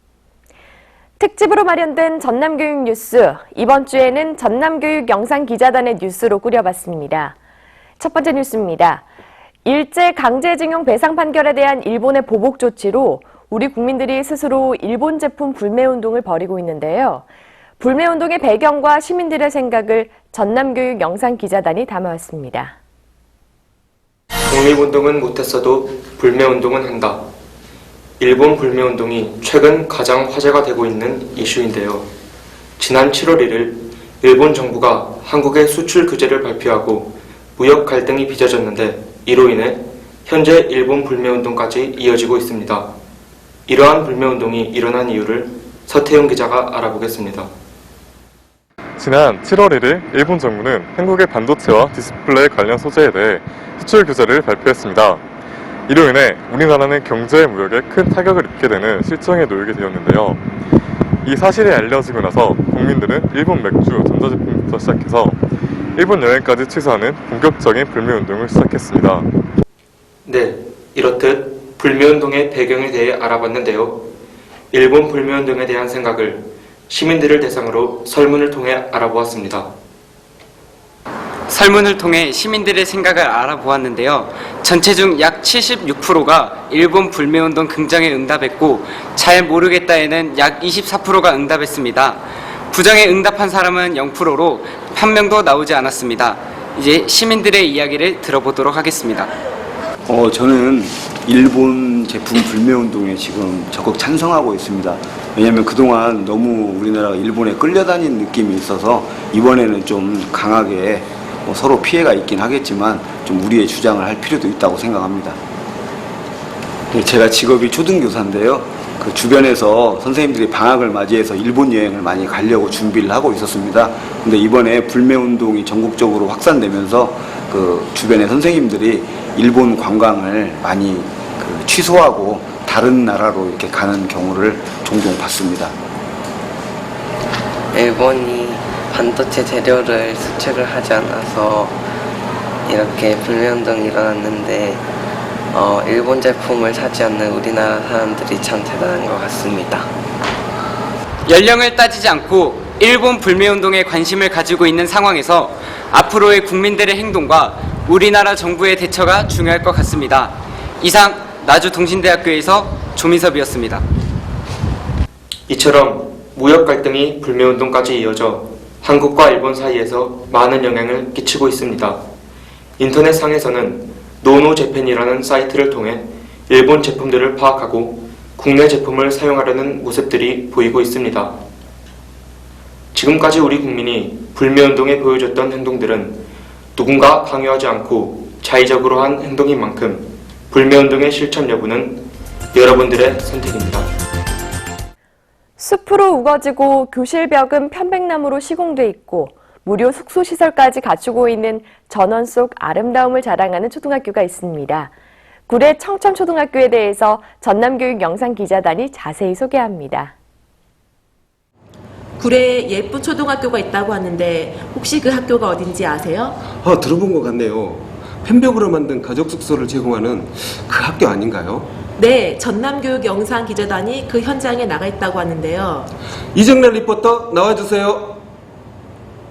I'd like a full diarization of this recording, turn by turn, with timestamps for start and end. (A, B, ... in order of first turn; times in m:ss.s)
0:01.2-0:07.3 A
0:08.0-0:09.0 A
0:09.6-0:17.2 A
0:17.8-0:22.7 A
0:24.5-0:27.2 B
0:28.2-0:32.1 B
0:32.8-0:42.9 B
0:43.7-0:47.5 B
0:49.0-0:55.2 C
0:55.9-1:00.4 C
1:01.2-1:05.4 C
1:06.0-1:09.2 C
1:10.2-1:14.0 B
1:14.7-1:19.7 B
1:21.5-1:32.2 D
1:32.7-1:39.3 D
1:40.1-1:55.4 E
1:56.9-2:15.7 E
2:17.7-2:21.8 F
2:22.7-2:24.8 F
2:25.5-2:29.9 F
2:31.3-2:43.8 D
2:45.5-2:52.0 B
2:52.8-3:01.4 B
3:02.9-3:06.2 B
3:06.8-3:13.9 B
3:15.6-3:24.9 A
3:25.5-3:30.1 A
3:32.2-3:36.5 G
3:36.5-3:41.7 H
3:42.0-3:45.9 G
3:46.3-3:48.2 H